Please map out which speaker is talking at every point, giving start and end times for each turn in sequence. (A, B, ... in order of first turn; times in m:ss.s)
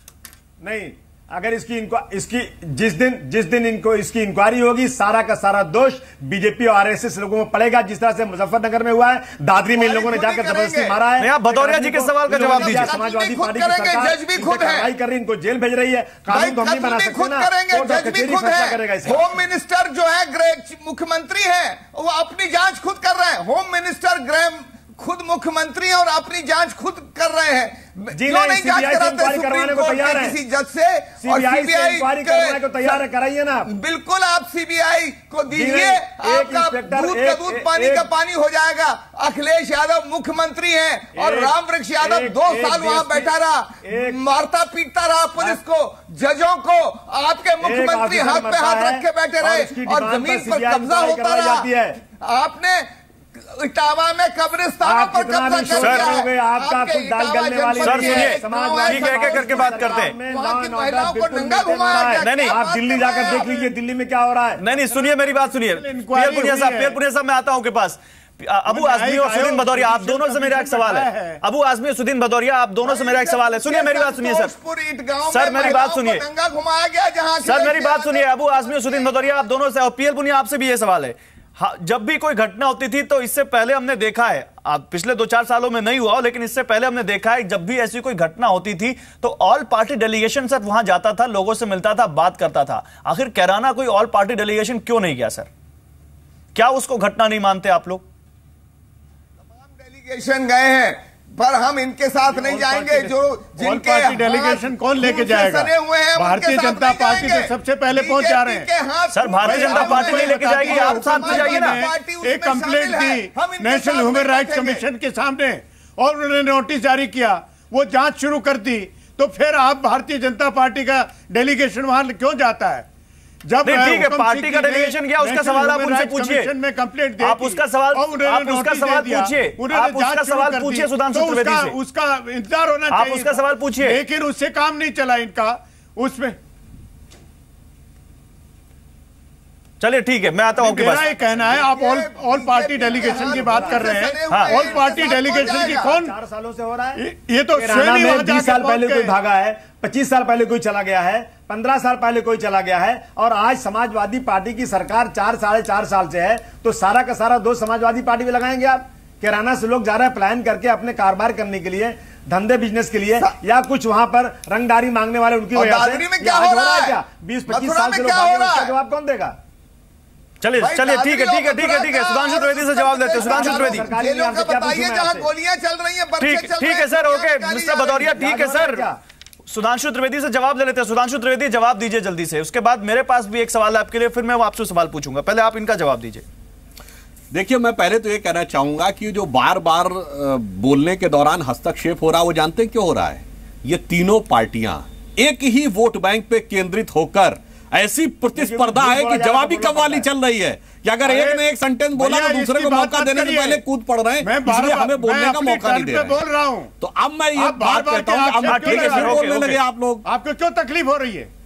0:00.6-0:19.3 A
0:09.8-0:11.0 B
0:11.2-0:13.0 C
0:12.4-0:14.9 B
0:16.3-0:33.0 B
0:28.1-0:30.4 A
0:31.2-0:33.7 A
0:33.7-1:03.6 B
0:35.5-0:38.1 A
0:41.2-0:43.3 A
0:43.8-0:44.2 A
0:47.6-0:52.0 A
0:54.8-1:04.6 A
0:55.8-0:56.2 C
0:57.8-1:00.2 C
1:02.2-1:02.6 C
1:03.0-1:03.5 D
1:04.6-1:14.5 C
1:04.6-1:07.0 D
1:08.7-1:11.4 D
1:12.8-1:19.5 B
1:15.3-1:16.2 C
1:17.4-1:35.5 C
1:36.6-1:38.0 C
1:39.5-1:54.8 B
1:42.3-1:48.7 D
1:49.1-1:51.8 C
1:49.4-2:02.9 D
2:03.5-2:16.4 D
2:03.6-2:06.5 C
2:07.2-2:11.8 C
2:12.9-2:14.0 C
2:19.8-2:21.1 C
2:20.6-2:26.2 D
2:20.8-2:25.9 B
2:23.0-2:24.0 A
2:24.3-2:24.6 C
2:25.3-2:27.0 A
2:27.0-2:29.1 D
2:27.5-2:49.4 A
2:45.5-2:48.7 B
2:50.4-2:53.9 C
2:50.6-2:58.1 B
2:53.2-2:55.3 A
2:56.2-2:58.9 C
2:58.0-2:59.0 A
2:59.5-3:06.2 C
3:07.3-3:26.2 E
3:18.4-3:20.1 A
3:21.0-3:21.4 D
3:22.0-3:23.6 D
3:24.2-3:26.7 D
3:26.8-3:30.0 E
3:27.4-3:29.3 D
3:28.4-3:29.6 C
3:30.0-3:31.3 D